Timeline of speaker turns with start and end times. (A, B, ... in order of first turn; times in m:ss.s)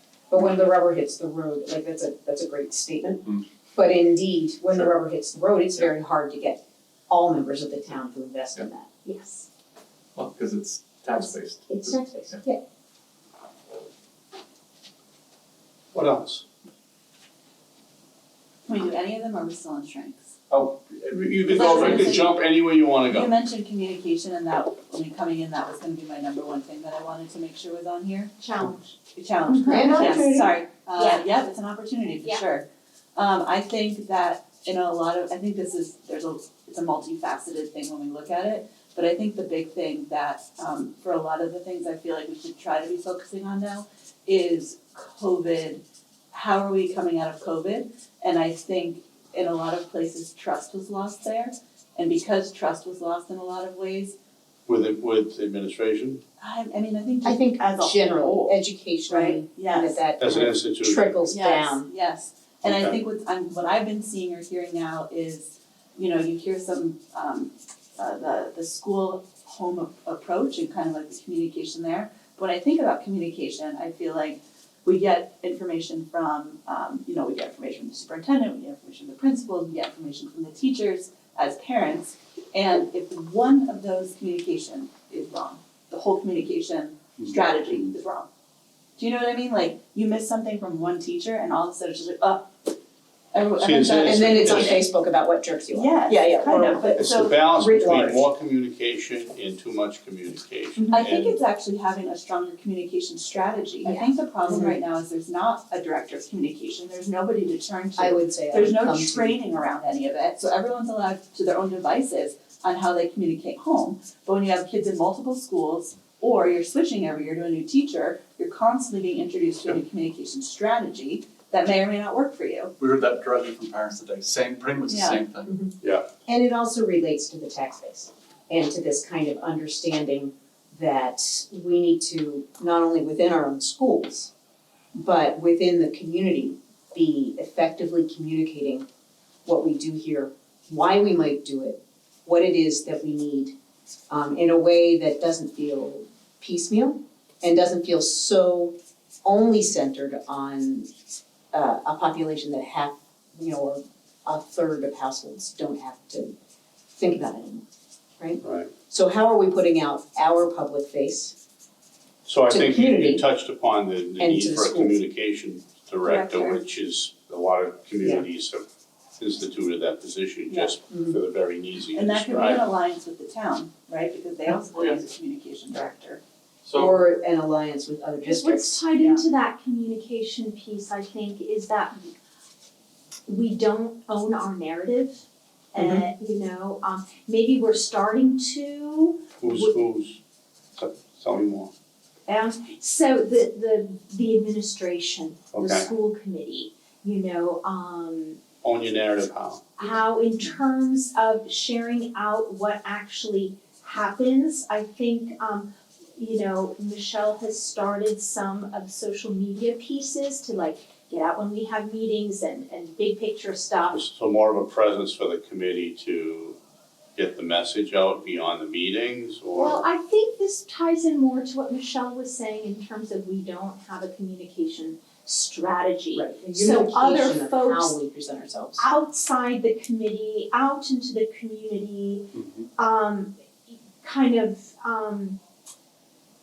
0:00.3-0:03.2 A
0:03.7-0:08.9 A
0:09.0-0:09.5 B
0:10.2-0:12.4 C
0:11.7-0:12.6 A
0:15.9-0:16.4 D
0:18.7-0:20.3 E
0:20.5-0:22.1 C
0:21.3-0:23.3 D
0:21.5-0:22.3 E
0:23.1-0:28.3 E
0:28.4-0:29.0 B
0:29.1-0:54.2 E
0:29.5-0:30.2 B
0:29.6-0:30.6 A
0:31.0-0:31.2 B
0:54.7-0:56.2 D
0:56.4-1:00.0 E
0:57.2-1:01.9 A
1:00.2-1:01.2 D
1:01.3-1:28.3 E
1:02.6-1:03.0 D
1:29.0-1:32.5 E
1:33.3-1:34.9 E
1:33.6-1:34.8 D
1:34.0-1:38.2 A
1:35.7-1:37.4 E
1:37.0-1:41.4 D
1:40.9-2:02.7 E
1:43.8-1:44.8 A
1:48.0-1:49.4 A
2:02.8-2:05.6 C
2:04.9-2:05.2 E
2:05.8-2:06.1 D
2:06.2-2:14.3 A
2:14.9-2:18.8 A
2:19.4-2:23.5 A
2:24.1-2:30.9 A
2:31.5-2:36.4 A
2:36.9-2:37.6 A
2:38.2-2:41.4 A
2:38.4-2:38.7 D
2:42.3-2:48.6 D
2:42.5-2:43.2 A
2:44.2-2:45.0 A
2:46.0-2:46.7 E
2:49.2-2:52.7 D
2:50.5-2:50.8 E
2:50.9-2:51.2 A
2:52.0-2:56.2 E
2:54.7-2:55.0 C
2:56.6-2:57.0 C
2:56.7-2:58.8 A
2:58.2-3:02.1 B
2:59.0-2:59.2 E
3:03.3-3:09.8 B
3:05.8-3:06.0 A
3:09.4-3:10.2 D
3:10.8-3:11.7 D
3:12.3-3:18.4 B
3:15.5-3:15.9 D
3:18.6-3:19.7 D
3:19.8-3:34.0 B
3:33.9-3:36.6 D
3:37.2-3:39.8 D
3:39.6-3:48.0 B
3:46.1-3:48.9 A
3:48.8-3:55.4 B